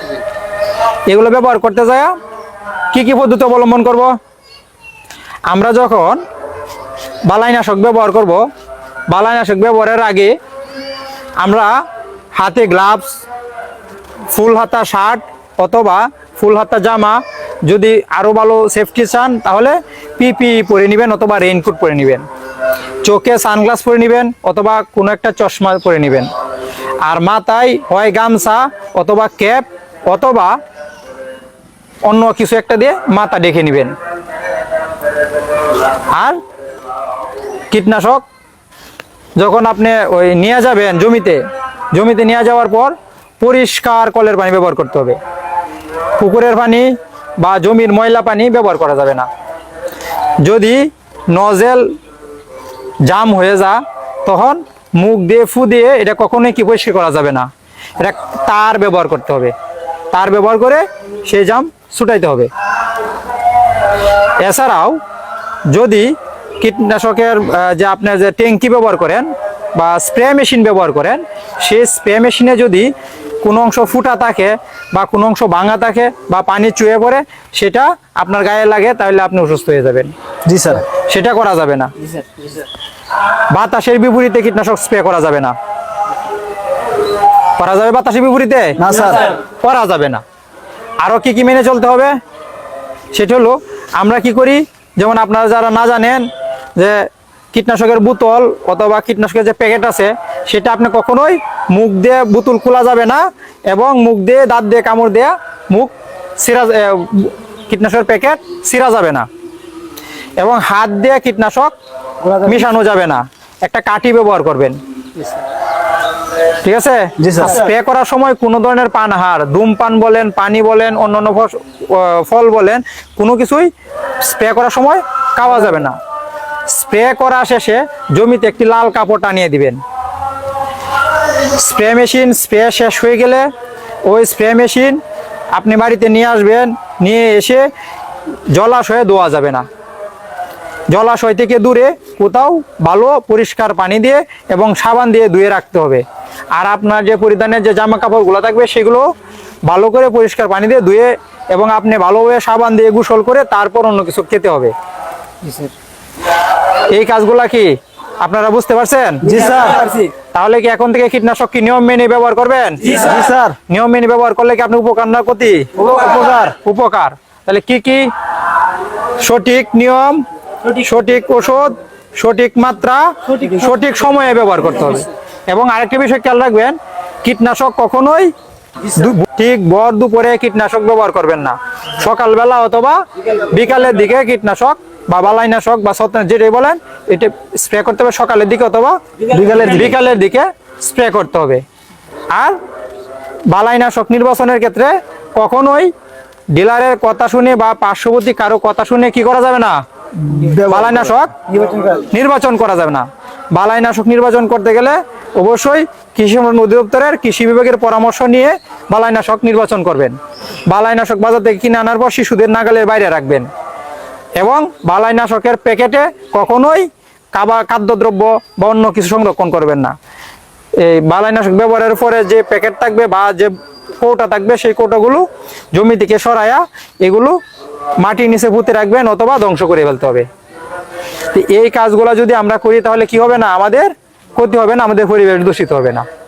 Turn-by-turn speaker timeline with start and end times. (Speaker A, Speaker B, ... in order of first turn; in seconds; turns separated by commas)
Speaker A: 1.1-2.2, Speaker A: 2.9-4.1, Speaker A: 5.5-6.2, Speaker A: 7.3-8.4, Speaker A: 9.1-10.3, Speaker A: 11.4-11.7, Speaker A: 12.3-13.2, Speaker A: 14.3-22.2, Speaker A: 23.0-26.3, Speaker A: 27.1-30.6, Speaker A: 32.1-34.0, Speaker A: 36.1-36.4, Speaker A: 37.7-38.2, Speaker A: 39.4-41.4, Speaker A: 41.9-45.2, Speaker A: 46.2-49.3, Speaker A: 50.4-51.9, Speaker A: 53.1-57.5, Speaker A: 58.0-59.5, Speaker A: 60.1-62.5, Speaker A: 64.4-65.0, Speaker A: 65.7-72.9, Speaker A: 73.4-80.1, Speaker B: 80.5-80.8, Speaker A: 80.9-81.9, Speaker A: 83.5-85.5, Speaker A: 87.6-90.2, Speaker B: 88.8-89.2, Speaker A: 91.0-92.2, Speaker A: 93.1-109.3, Speaker A: 110.4-111.7, Speaker A: 112.3-114.8, Speaker A: 116.6-123.7, Speaker B: 117.2-117.5, Speaker A: 124.2-126.0, Speaker A: 126.7-129.8, Speaker A: 131.3-133.5, Speaker A: 134.1-135.0, Speaker A: 135.5-137.7, Speaker A: 138.5-139.7, Speaker A: 140.9-146.0, Speaker A: 146.6-149.1, Speaker A: 149.7-154.7, Speaker A: 156.9-159.6, Speaker B: 159.2-159.8, Speaker A: 160.3-163.2, Speaker B: 163.0-163.6, Speaker A: 163.7-168.1, Speaker A: 169.2-178.3, Speaker A: 178.9-191.6, Speaker B: 189.3-189.8, Speaker A: 192.3-192.6, Speaker A: 193.5-195.9, Speaker A: 196.5-199.8, Speaker B: 200.3-200.8, Speaker A: 200.5-213.5, Speaker A: 214.4-219.9, Speaker A: 220.8-227.4, Speaker A: 228.0-230.3, Speaker A: 231.3-236.1